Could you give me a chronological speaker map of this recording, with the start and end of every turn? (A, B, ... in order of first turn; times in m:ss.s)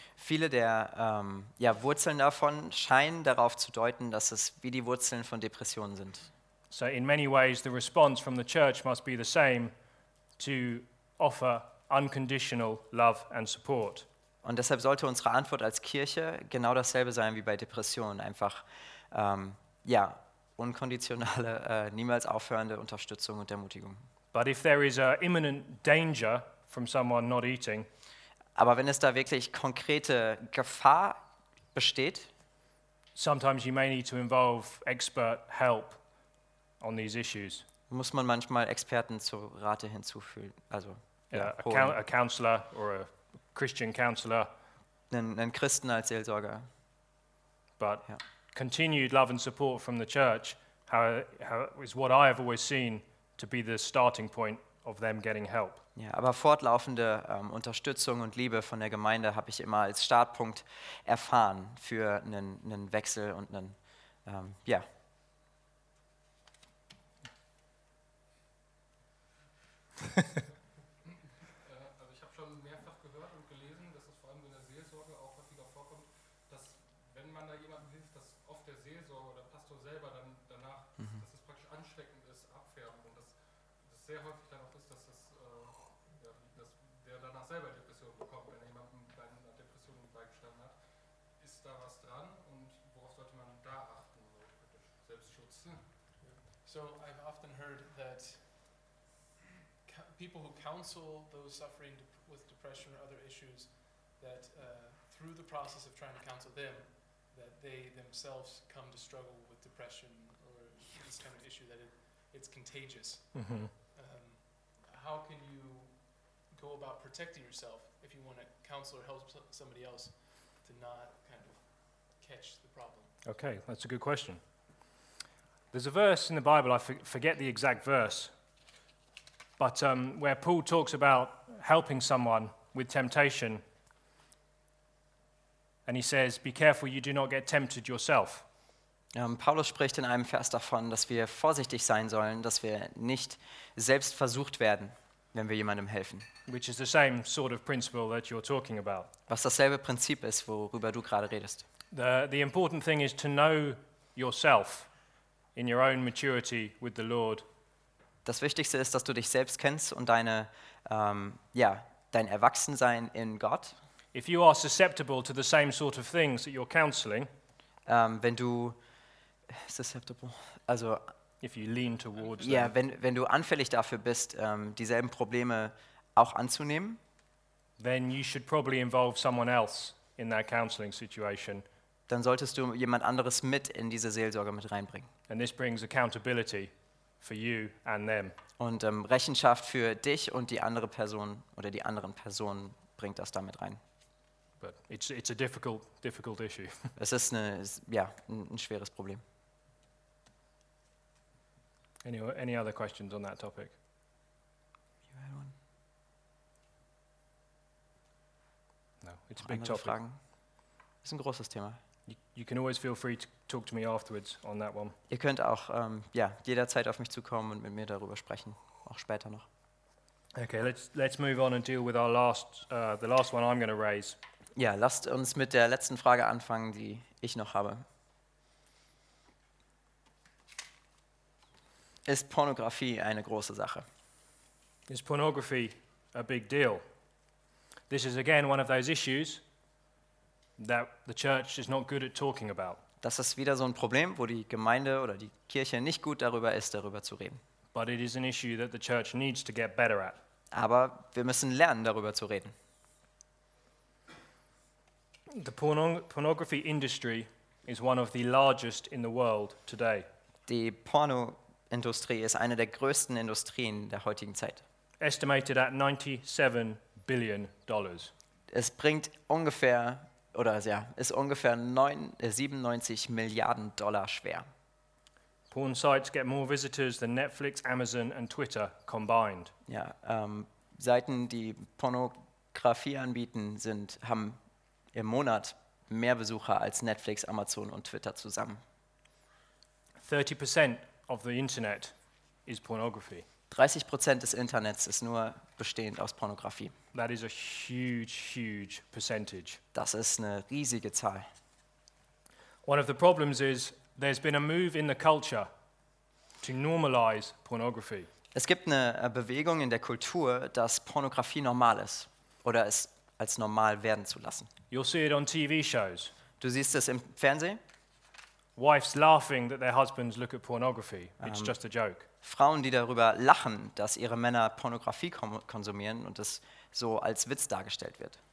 0:00.2-0:06.3 A
0:06.7-0:09.7 B
0:10.4-0:14.1 B
0:14.4-0:24.0 A
0:24.3-0:27.9 B
0:28.6-0:31.2 A
0:31.7-0:32.3 A
0:33.2-0:36.0 B
0:36.8-0:37.6 B
0:37.9-0:42.0 A
0:41.3-0:44.5 B
0:45.1-0:46.7 A
0:47.8-0:55.8 B
0:56.0-1:04.9 A
1:11.5-1:36.0 C
1:36.2-1:38.9 D
1:39.8-2:03.2 D
1:53.4-1:53.7 B
2:03.2-2:04.4 B
2:05.7-2:08.3 B
2:09.6-2:13.6 B
2:15.9-2:18.4 B
2:19.1-2:26.3 A
2:26.5-2:29.1 B
2:29.3-2:31.7 A
2:31.9-2:34.9 B
2:35.6-2:37.4 B
2:38.2-2:43.8 A
2:44.1-2:47.3 B
2:47.9-2:48.8 A
2:49.5-2:51.1 A
2:51.4-2:52.7 B
2:52.4-2:57.0 A
2:57.8-3:01.6 B
3:02.1-3:05.1 A
3:05.3-3:08.4 B
3:08.6-3:13.8 A
3:14.6-3:16.9 B
3:17.0-3:19.2 A
3:22.0-3:23.7 B
3:25.1-3:25.5 A
3:29.0-3:30.0 B
3:29.4-3:30.2 A
3:31.0-3:31.8 A
3:32.1-3:35.0 B
3:35.1-3:39.5 A
3:40.4-3:44.2 B
3:44.6-3:47.8 A
3:52.0-3:53.9 A
3:54.9-3:56.8 B
3:57.9-3:59.4 B
4:00.6-4:02.8 B
4:03.0-4:07.4 A
4:07.7-4:10.2 B
4:10.5-4:12.5 A
4:15.3-4:20.1 B
4:20.5-4:24.6 A
4:25.0-4:28.1 B
4:28.5-4:34.5 A
4:35.5-4:39.5 B
4:39.7-4:44.4 A
4:44.9-4:48.6 A
4:50.0-4:51.9 B
4:52.5-4:53.2 B
4:53.5-4:56.7 A
4:56.9-4:59.6 B
4:59.7-5:01.3 A
5:02.6-5:05.5 B
5:06.4-5:08.1 B
5:08.3-5:14.5 A
5:14.7-5:16.1 B
5:16.4-5:17.6 A
5:18.6-5:22.1 B
5:21.2-5:21.6 A
5:22.2-5:28.2 A